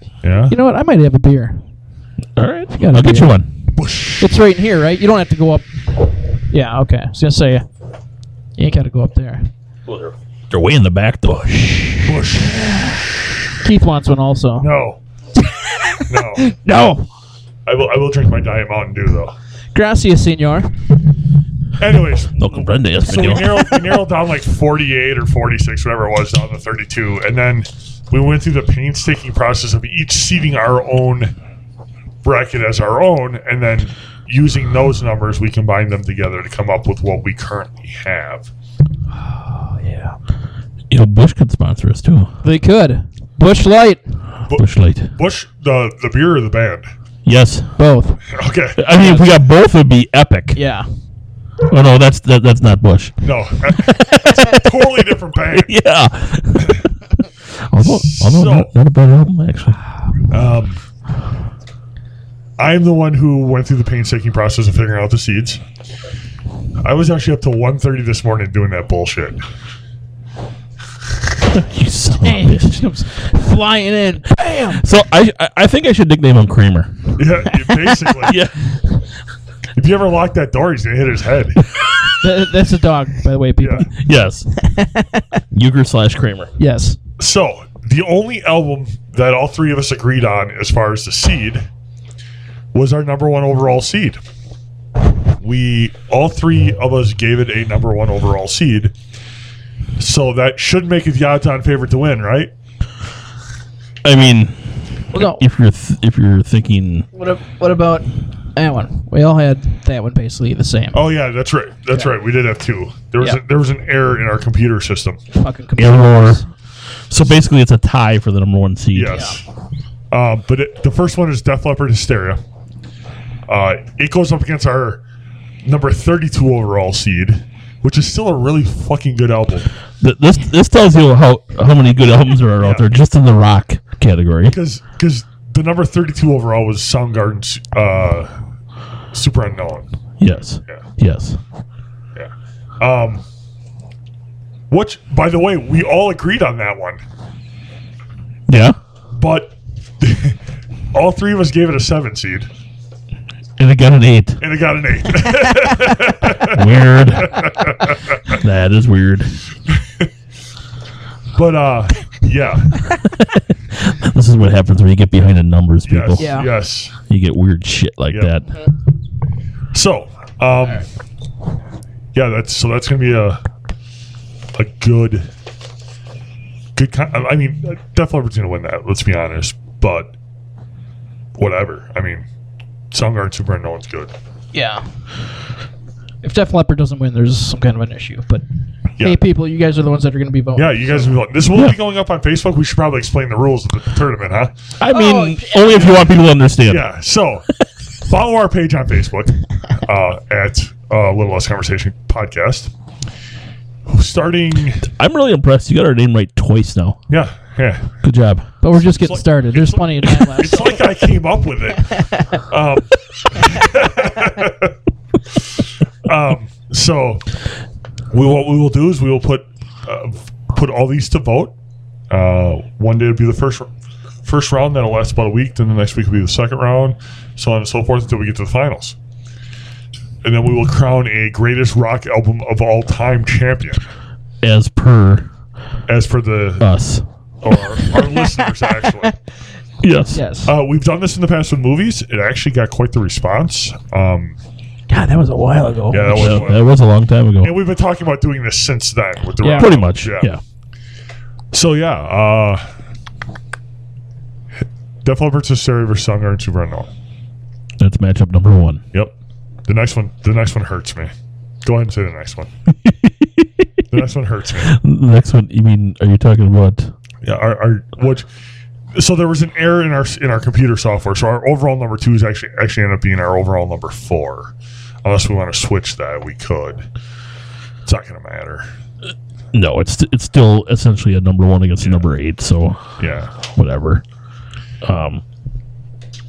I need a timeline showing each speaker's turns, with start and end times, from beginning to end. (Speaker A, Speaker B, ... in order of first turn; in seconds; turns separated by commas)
Speaker A: 0.2-0.6, Speaker B: 0.5-1.6, Speaker C: 2.4-3.5, Speaker B: 2.7-3.4, Speaker A: 3.7-4.3, Speaker B: 4.2-5.7, Speaker B: 6.5-7.7, Speaker B: 8.6-9.5, Speaker C: 9.8-12.1, Speaker A: 12.0-13.0, Speaker B: 13.6-14.7, Speaker A: 14.6-15.0, Speaker B: 15.9-17.1, Speaker A: 16.1-16.5, Speaker A: 17.6-19.3, Speaker B: 19.7-20.7, Speaker A: 21.8-31.3, Speaker C: 22.4-23.8, Speaker A: 32.2-38.5, Speaker B: 39.3-40.1, Speaker C: 40.9-42.3, Speaker B: 42.4-44.0, Speaker A: 44.5-46.9, Speaker C: 44.5-45.1, Speaker C: 47.2-47.8, Speaker B: 47.8-48.2, Speaker A: 48.3-48.9, Speaker C: 48.8-50.6, Speaker B: 49.0-49.4, Speaker B: 50.5-50.9, Speaker C: 51.7-53.1, Speaker A: 53.2-55.7, Speaker C: 53.7-54.9, Speaker C: 55.5-56.9, Speaker C: 57.7-59.8, Speaker A: 57.8-58.7, Speaker A: 60.3-60.8, Speaker A: 62.6-65.6, Speaker A: 66.8-69.4, Speaker C: 71.5-72.8, Speaker B: 72.2-74.9, Speaker C: 74.5-77.2, Speaker A: 77.2-78.4, Speaker C: 78.1-78.6, Speaker A: 79.7-81.6, Speaker B: 82.2-83.9, Speaker A: 83.6-83.9, Speaker C: 83.9-84.5, Speaker B: 84.7-85.2, Speaker C: 85.5-86.5, Speaker B: 86.6-87.0, Speaker A: 87.2-91.7, Speaker A: 92.7-94.2, Speaker A: 95.4-98.9, Speaker A: 100.0-102.5, Speaker C: 104.0-104.6, Speaker B: 105.1-105.4, Speaker C: 105.1-107.1, Speaker B: 107.1-111.0, Speaker A: 110.9-115.2, Speaker B: 115.3-116.5, Speaker C: 115.8-116.4, Speaker C: 117.1-119.3, Speaker A: 118.9-119.4, Speaker B: 119.1-119.4, Speaker A: 120.1-122.4, Speaker A: 123.5-125.0, Speaker A: 125.6-129.7, Speaker C: 130.0-134.6, Speaker A: 132.6-132.9, Speaker A: 134.4-138.3, Speaker A: 139.1-139.9, Speaker C: 140.2-141.4, Speaker A: 142.2-143.2, Speaker A: 144.7-147.0, Speaker C: 148.5-148.8, Speaker A: 149.2-150.4, Speaker A: 150.9-152.5, Speaker C: 153.6-154.4, Speaker A: 154.4-158.3, Speaker C: 156.4-157.5, Speaker C: 158.2-159.4, Speaker A: 161.3-162.9, Speaker C: 163.0-166.4, Speaker A: 165.8-166.9, Speaker B: 166.2-166.5, Speaker C: 167.1-168.4, Speaker A: 168.1-168.4, Speaker A: 169.7-170.8, Speaker A: 172.1-173.4, Speaker A: 174.5-175.3, Speaker A: 176.8-180.1, Speaker A: 181.4-182.2, Speaker A: 182.9-184.1, Speaker B: 184.5-184.8, Speaker B: 186.2-188.4, Speaker B: 189.0-191.1, Speaker A: 190.6-194.5, Speaker C: 194.8-196.8, Speaker B: 194.9-195.4, Speaker A: 195.7-196.1, Speaker A: 196.7-197.5, Speaker A: 198.0-202.7, Speaker A: 203.9-204.8, Speaker C: 204.9-207.0, Speaker A: 207.1-207.9, Speaker C: 208.0-208.5, Speaker B: 208.6-210.8, Speaker A: 208.8-214.7, Speaker A: 216.0-217.2, Speaker A: 218.1-221.5, Speaker A: 222.1-223.7, Speaker A: 224.2-228.9, Speaker A: 230.2-233.8, Speaker C: 234.4-235.3, Speaker A: 235.9-236.6, Speaker C: 236.6-237.0, Speaker A: 237.4-239.2, Speaker C: 239.8-240.2, Speaker B: 240.1-240.5, Speaker A: 240.4-244.3, Speaker B: 244.9-246.5, Speaker A: 245.9-246.6, Speaker C: 246.1-247.5, Speaker A: 247.4-250.3, Speaker B: 249.4-249.7, Speaker C: 249.5-250.4, Speaker A: 251.5-252.6, Speaker A: 255.0-256.9, Speaker C: 257.8-258.8, Speaker A: 259.7-261.1, Speaker A: 261.6-262.5, Speaker C: 262.8-263.8, Speaker A: 263.9-264.8, Speaker C: 264.6-266.9, Speaker A: 267.2-268.2, Speaker A: 268.9-276.8, Speaker A: 277.8-278.7, Speaker C: 279.5-282.8, Speaker A: 281.8-282.1, Speaker A: 283.0-283.3, Speaker C: 283.4-284.0, Speaker C: 284.8-285.2